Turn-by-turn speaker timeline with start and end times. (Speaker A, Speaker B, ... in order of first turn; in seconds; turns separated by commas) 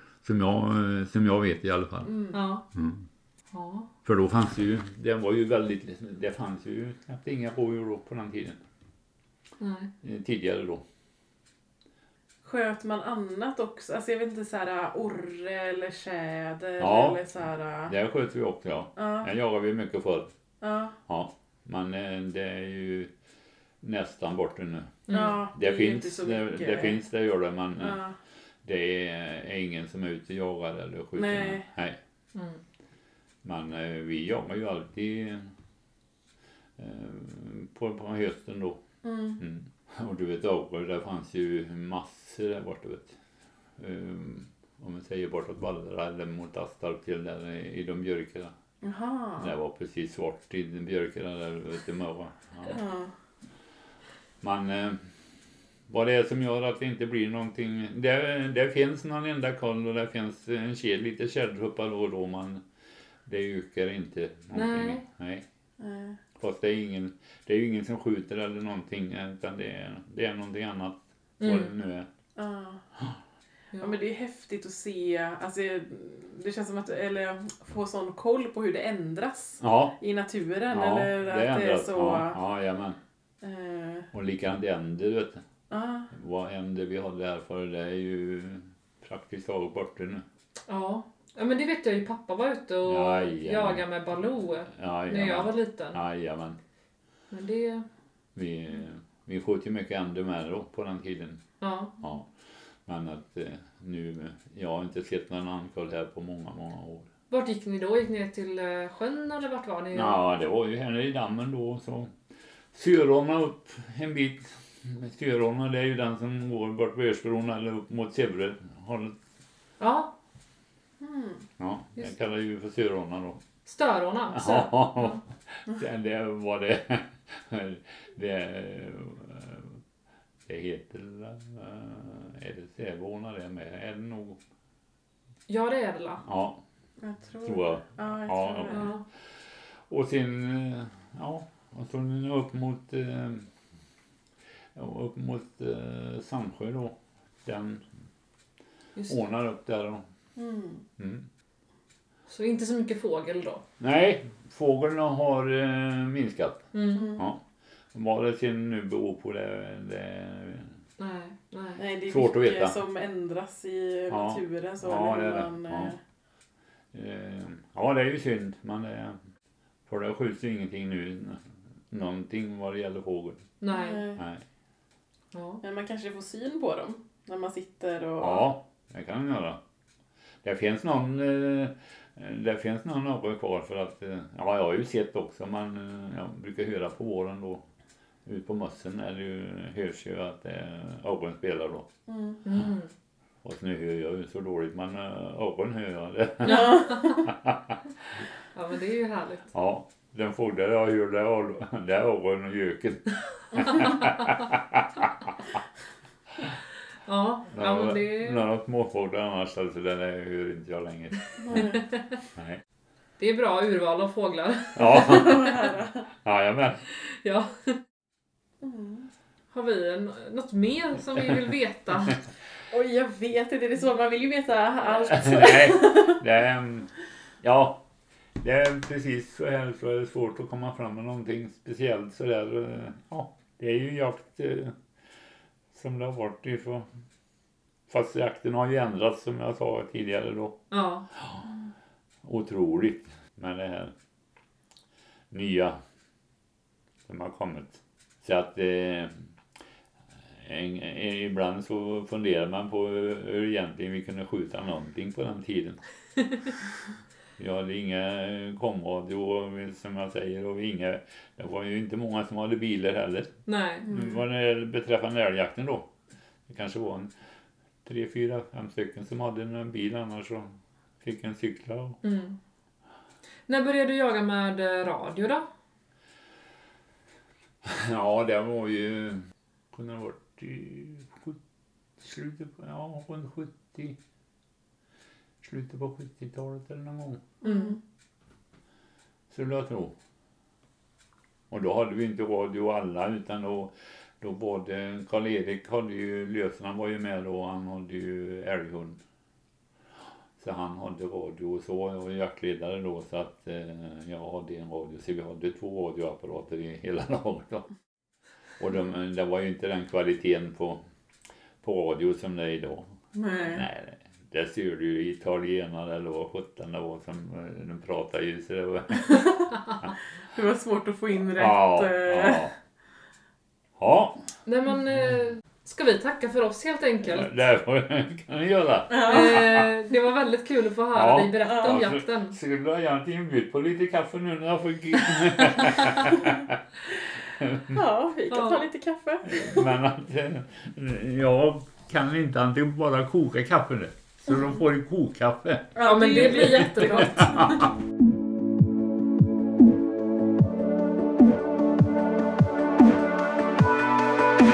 Speaker A: 0.2-2.1, Speaker B: 2.0-2.4, Speaker C: 2.3-2.6, Speaker A: 2.7-3.0, Speaker C: 3.5-3.9, Speaker A: 4.0-8.6, Speaker C: 9.6-9.9, Speaker A: 10.0-10.8, Speaker B: 12.4-17.9, Speaker A: 16.8-17.2, Speaker A: 17.9-20.3, Speaker B: 18.9-19.3, Speaker B: 20.6-21.0, Speaker A: 21.1-23.1, Speaker A: 23.8-28.0, Speaker C: 25.1-25.4, Speaker B: 25.1-27.0, Speaker B: 27.8-28.1, Speaker A: 28.6-32.0, Speaker B: 31.1-31.6, Speaker C: 32.3-32.6, Speaker A: 33.4-35.5, Speaker A: 36.8-38.8, Speaker B: 39.0-39.4, Speaker A: 39.4-43.2, Speaker A: 43.8-48.5, Speaker B: 48.8-49.5, Speaker A: 49.4-52.8, Speaker B: 52.7-53.1, Speaker A: 54.4-55.1, Speaker A: 55.9-62.6, Speaker A: 63.2-65.4, Speaker C: 64.5-65.0, Speaker B: 65.8-66.2, Speaker A: 66.3-72.1, Speaker C: 71.4-71.7, Speaker B: 72.3-72.8, Speaker B: 73.8-82.4, Speaker A: 79.6-80.0, Speaker A: 80.7-83.0, Speaker B: 83.4-84.1, Speaker A: 84.1-85.4, Speaker B: 85.7-86.1, Speaker A: 86.1-90.2, Speaker C: 90.7-96.0, Speaker A: 92.8-93.8, Speaker A: 94.7-96.6, Speaker C: 97.3-97.8, Speaker A: 98.3-101.4, Speaker C: 101.6-101.9, Speaker A: 102.0-102.3, Speaker A: 102.8-107.1, Speaker C: 107.3-110.2, Speaker A: 109.9-112.1, Speaker A: 112.7-119.2, Speaker C: 119.8-120.1, Speaker B: 121.0-121.4, Speaker A: 121.6-123.4, Speaker C: 123.7-125.2, Speaker A: 124.3-129.8, Speaker A: 130.4-134.4, Speaker C: 135.5-136.2, Speaker A: 136.2-136.6, Speaker B: 137.0-138.9, Speaker A: 137.4-138.9, Speaker C: 138.7-139.0, Speaker A: 139.9-143.5, Speaker A: 144.7-147.8, Speaker A: 149.1-150.0, Speaker B: 150.3-150.8, Speaker A: 151.0-151.2, Speaker C: 152.3-153.6, Speaker A: 153.8-157.4, Speaker C: 156.7-157.2, Speaker B: 156.9-157.3, Speaker A: 157.9-160.7, Speaker C: 161.0-161.8, Speaker B: 161.8-166.0, Speaker A: 162.0-162.8, Speaker A: 164.1-165.9, Speaker A: 166.9-169.2, Speaker A: 169.9-173.5, Speaker C: 173.6-174.1, Speaker B: 173.7-174.2, Speaker A: 174.2-174.4, Speaker C: 175.3-175.6, Speaker B: 175.6-178.5, Speaker A: 178.2-179.6, Speaker A: 180.4-187.6, Speaker A: 188.2-191.9, Speaker B: 192.1-192.4, Speaker C: 192.4-192.9, Speaker A: 193.4-197.8, Speaker C: 196.4-197.2, Speaker B: 196.4-197.2, Speaker C: 198.5-199.5, Speaker A: 199.5-205.3, Speaker C: 207.1-208.4, Speaker A: 207.5-211.8, Speaker B: 211.4-211.7, Speaker A: 212.3-212.6, Speaker C: 213.2-215.5, Speaker A: 214.8-216.8, Speaker B: 215.0-216.0, Speaker C: 217.1-217.8, Speaker B: 218.6-219.1, Speaker C: 219.5-222.2, Speaker B: 222.7-226.2, Speaker A: 225.1-226.9, Speaker A: 227.4-227.8, Speaker A: 228.4-234.7, Speaker A: 235.7-236.9, Speaker A: 237.9-240.6, Speaker C: 240.7-241.1, Speaker A: 242.2-243.9, Speaker A: 245.3-245.8, Speaker A: 247.1-249.1, Speaker A: 250.4-255.8, Speaker A: 257.4-263.3, Speaker C: 263.5-263.9, Speaker A: 263.9-265.9, Speaker A: 266.5-267.1, Speaker A: 267.8-272.0, Speaker C: 272.0-272.4, Speaker C: 273.5-275.5, Speaker A: 277.6-281.4, Speaker A: 282.0-284.0, Speaker A: 285.4-287.2, Speaker B: 287.4-287.7, Speaker C: 287.4-287.7, Speaker A: 289.3-289.9, Speaker A: 291.5-299.0, Speaker A: 300.4-307.6, Speaker A: 308.6-310.8, Speaker A: 311.6-312.9, Speaker B: 313.1-313.6, Speaker A: 313.5-319.3, Speaker B: 320.3-322.5, Speaker A: 321.4-322.5, Speaker A: 323.8-324.2, Speaker C: 324.4-327.4, Speaker A: 327.0-329.7, Speaker B: 328.9-329.4, Speaker C: 329.0-332.4, Speaker A: 330.9-336.6, Speaker B: 331.4-331.7, Speaker A: 337.4-337.8, Speaker B: 337.6-339.6, Speaker C: 338.3-338.7, Speaker A: 339.3-347.7, Speaker B: 345.8-347.6, Speaker C: 345.8-347.2